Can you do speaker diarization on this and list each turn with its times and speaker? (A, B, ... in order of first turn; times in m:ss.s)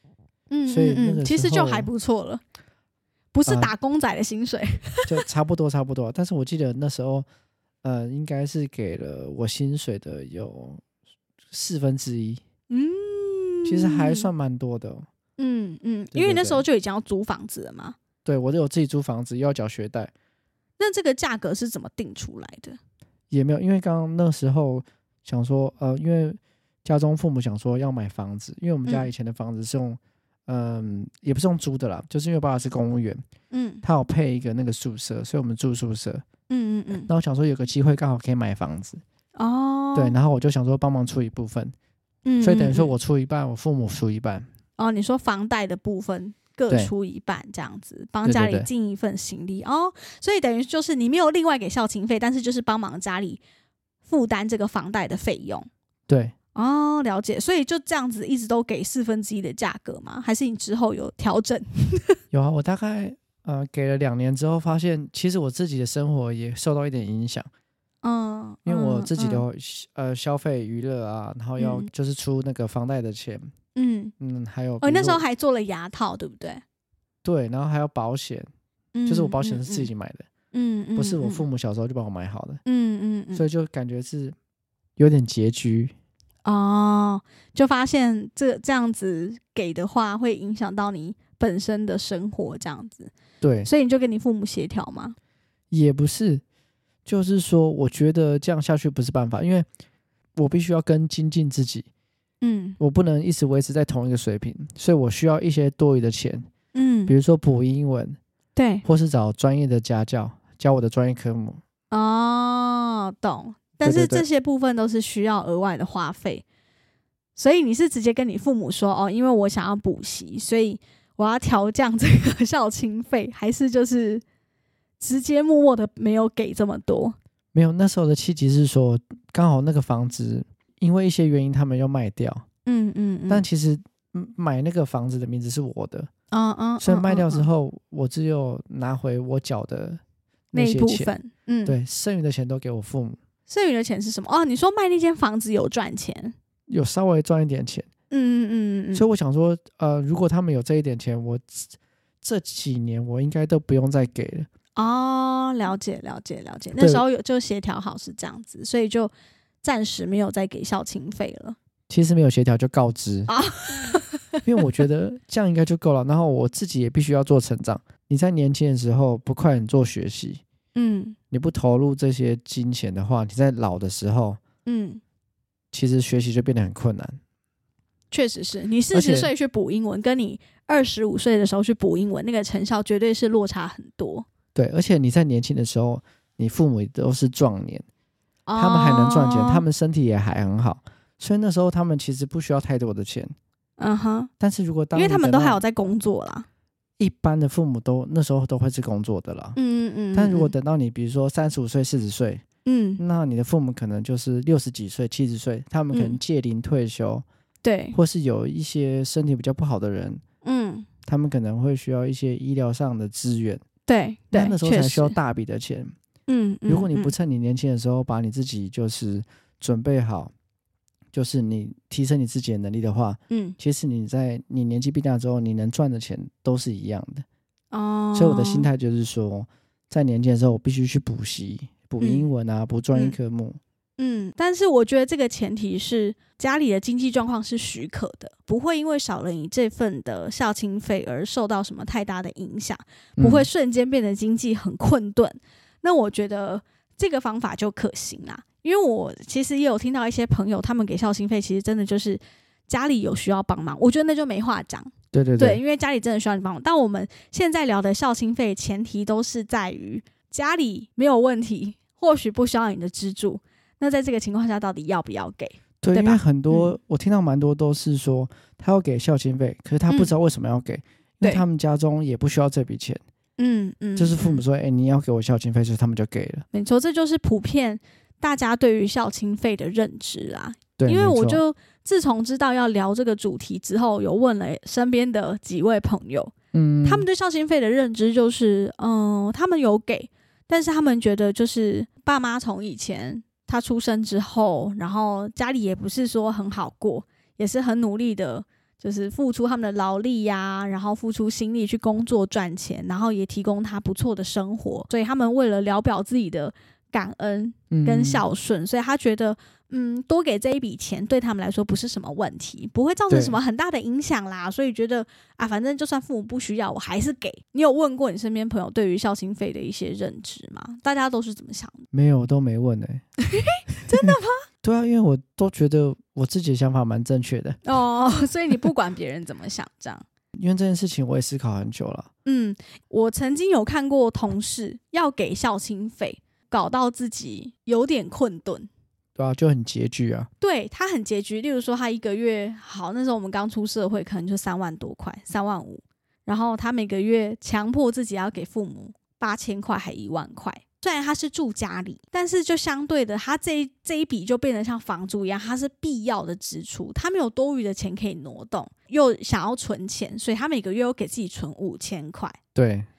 0:00.5-0:02.4 A
0:00.7-0:01.9 B
0:03.3-0:05.2 A
0:03.5-0:03.7 B
0:05.0-0:07.2 B
0:07.8-0:10.8 B
0:11.5-0:12.4 B
0:12.7-0:14.3 A
0:13.6-0:15.0 B
0:15.4-0:18.0 A
0:16.1-0:16.6 B
0:18.2-0:20.1 B
0:20.8-0:22.8 A
0:23.3-0:33.2 B
0:33.5-0:33.8 A
0:33.8-0:36.2 B
0:36.5-0:37.1 A
0:36.9-0:39.0 B
0:39.4-0:40.2 A
0:39.9-0:41.7 B
0:42.2-0:42.9 A
0:42.4-0:44.5 B
0:44.8-0:53.4 A
0:48.2-0:48.7 B
0:54.0-0:55.7 A
0:56.1-0:56.3 B
0:56.5-1:02.2 A
1:02.3-1:07.5 B
1:08.0-1:09.4 A
1:08.6-1:13.5 B
1:11.6-1:11.9 A
1:13.7-1:14.1 A
1:14.2-1:15.2 B
1:14.8-1:16.6 A
1:17.2-1:18.5 B
1:18.9-1:19.9 A
1:19.0-1:20.3 B
1:20.5-1:21.4 A
1:21.0-1:22.6 B
1:22.6-1:23.4 A
1:23.3-1:24.4 B
1:25.0-1:25.9 B
1:26.4-1:33.1 A
1:33.4-1:33.7 B
1:33.6-1:35.2 A
1:35.7-1:36.4 B
1:37.0-1:39.6 B
1:40.4-1:41.9 B
1:42.4-1:42.8 A
1:42.8-1:46.5 B
1:46.7-1:47.1 A
1:47.1-1:48.2 B
1:48.6-1:48.8 A
1:48.8-1:51.6 B
1:51.9-1:56.4 A
1:53.8-1:54.2 B
1:57.4-2:04.2 A
2:05.0-2:07.2 A
2:07.5-2:12.4 B
2:12.6-2:13.4 A
2:13.3-2:16.1 B
2:16.3-2:17.5 A
2:16.8-2:20.0 B
2:20.5-2:21.1 B
2:20.5-2:21.8 A
2:21.6-2:23.2 B
2:23.5-2:26.3 A
2:26.7-2:27.9 B
2:28.1-2:29.0 A
2:28.9-2:34.5 B
2:34.8-2:39.1 A
2:36.8-2:37.0 B
2:39.6-2:41.6 A
2:41.9-2:43.3 B
2:43.3-2:44.4 A
2:44.4-2:50.4 B
2:50.7-2:51.2 A
2:51.3-2:54.4 B
2:54.6-2:55.0 A
2:55.7-2:57.2 B
2:58.1-3:04.2 A
2:58.9-2:59.3 B
3:04.5-3:07.8 B
3:08.5-3:09.6 A
3:08.6-3:13.3 B
3:13.8-3:14.3 A
3:14.4-3:15.6 B
3:14.9-3:16.4 A
3:17.0-3:19.6 B
3:19.5-3:20.5 A
3:20.1-3:22.4 B
3:22.6-3:23.0 A
3:23.0-3:27.2 B
3:25.9-3:26.2 A
3:27.6-3:28.0 A
3:27.9-3:30.2 B
3:30.4-3:30.9 A
3:31.0-3:33.6 B
3:33.9-3:35.1 A
3:34.3-3:35.9 B
3:36.3-3:37.1 A
3:36.7-3:40.3 B
3:41.1-3:47.2 B
3:43.3-3:43.6 A
3:47.7-3:48.7 A
3:48.1-3:53.6 B
3:52.0-3:52.3 A
3:54.0-4:26.7 A
4:03.2-4:03.5 B
4:15.1-4:15.6 B
4:25.8-4:33.0 B
4:33.4-4:34.4 A
4:34.0-4:36.4 B
4:36.5-5:21.8 A
4:40.8-4:41.4 B
4:46.5-4:47.0 B
5:07.7-5:08.2 B
5:13.1-5:13.4 B
5:21.9-5:23.0 B
5:23.2-5:24.4 A
5:24.6-5:27.6 B
5:27.6-5:30.0 A
5:30.3-5:32.1 B
5:32.2-5:38.7 A
5:39.2-5:40.3 B
5:40.4-6:02.4 A
6:02.5-6:02.9 B